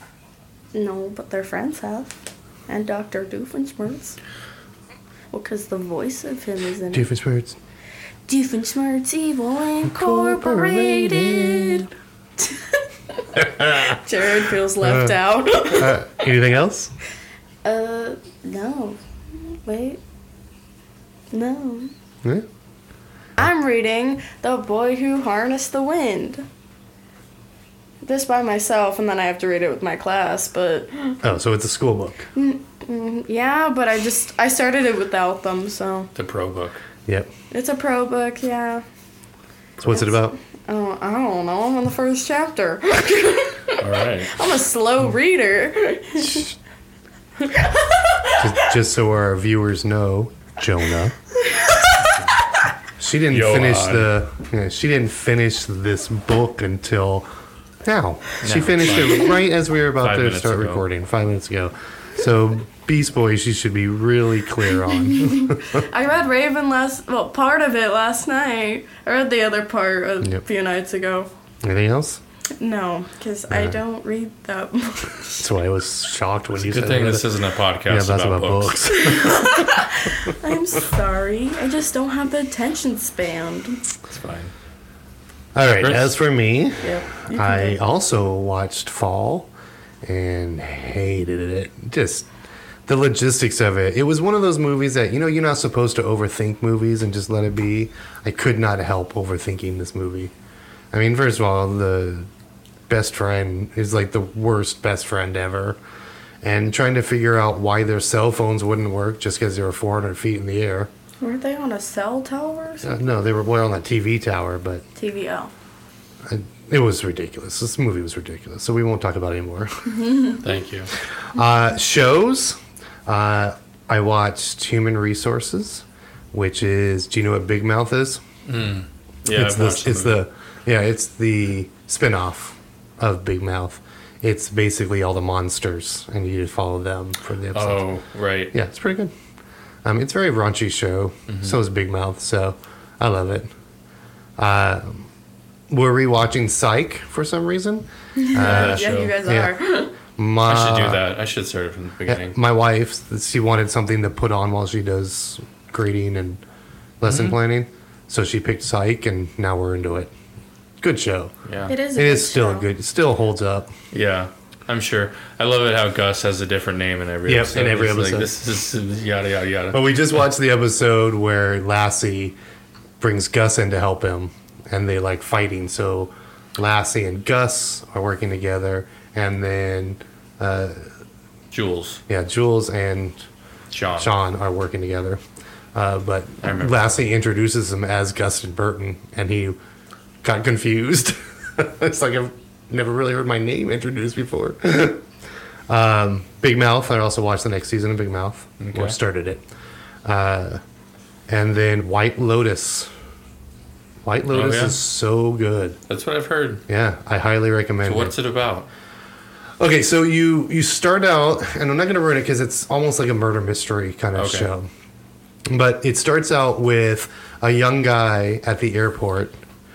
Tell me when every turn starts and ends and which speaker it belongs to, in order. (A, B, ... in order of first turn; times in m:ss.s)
0:00.7-0:04.2 A
0:05.3-0:07.1 A
0:06.9-0:07.6 B
0:08.3-0:16.0 A
0:09.8-0:11.9 B
0:13.4-0:14.0 B
0:14.8-0:16.9 B
0:17.6-0:20.0 A
0:21.3-0:21.9 A
0:23.4-0:26.5 A
0:28.0-0:31.2 A
0:31.2-0:32.3 B
0:32.3-0:36.1 A
0:36.2-0:36.8 C
0:37.5-0:38.8 A
0:39.8-0:40.4 B
0:39.9-0:46.5 A
0:43.8-0:44.4 C
0:47.4-0:48.6 A
0:48.4-0:51.2 B
0:51.4-0:52.1 A
0:53.0-0:57.3 B
0:53.3-0:54.2 C
0:57.8-1:05.8 B
0:58.4-0:59.4 C
1:00.0-1:00.8 C
1:05.0-1:11.3 A
1:11.6-1:12.2 B
1:12.6-1:15.4 A
1:13.5-1:13.8 B
1:15.4-1:19.6 B
1:16.6-1:19.1 C
1:18.9-1:23.8 A
1:24.1-1:24.5 C
1:25.6-1:29.5 B
1:25.8-1:26.1 C
1:26.8-1:27.8 A
1:30.0-1:32.3 B
1:32.9-1:40.3 B
1:40.9-1:42.3 B
1:42.9-1:45.8 B
1:46.4-1:50.9 B
1:51.2-1:53.0 A
1:52.8-1:54.8 B
1:55.0-1:55.5 A
1:56.2-2:00.4 B
2:00.4-2:00.9 C
2:01.3-2:08.2 B
2:08.5-2:10.2 C
2:09.3-2:17.9 B
2:17.5-2:18.5 C
2:18.5-2:19.1 B
2:19.8-2:23.5 B
2:21.3-2:21.6 C
2:24.4-2:25.1 B
2:25.7-2:29.6 B
2:28.2-2:30.0 A
2:28.4-2:29.2 C
2:30.2-2:31.0 B
2:30.5-2:32.4 C
2:32.1-2:36.4 B
2:37.0-2:40.1 B
2:37.0-2:37.4 C
2:40.8-2:41.3 B
2:41.5-2:41.7 C
2:41.7-2:42.7 A
2:41.9-2:43.7 B
2:43.9-2:49.9 C
2:47.3-2:48.3 B
2:49.7-2:52.4 B
2:53.0-3:00.8 B
3:01.5-3:02.0 C
3:02.1-3:03.2 B
3:03.7-3:04.1 C
3:04.0-3:05.2 B
3:05.7-3:09.6 B
3:06.4-3:06.9 C
3:10.2-3:15.0 B
3:15.7-3:19.4 B
3:18.6-3:19.0 C
3:20.0-3:20.6 B
3:21.3-3:22.9 B
3:24.0-3:25.8 B
3:24.3-3:24.8 C
3:25.9-3:26.6 C
3:26.7-3:28.2 B
3:27.8-3:28.7 C
3:29.6-3:34.7 B
3:34.2-3:34.5 C
3:35.5-3:39.4 B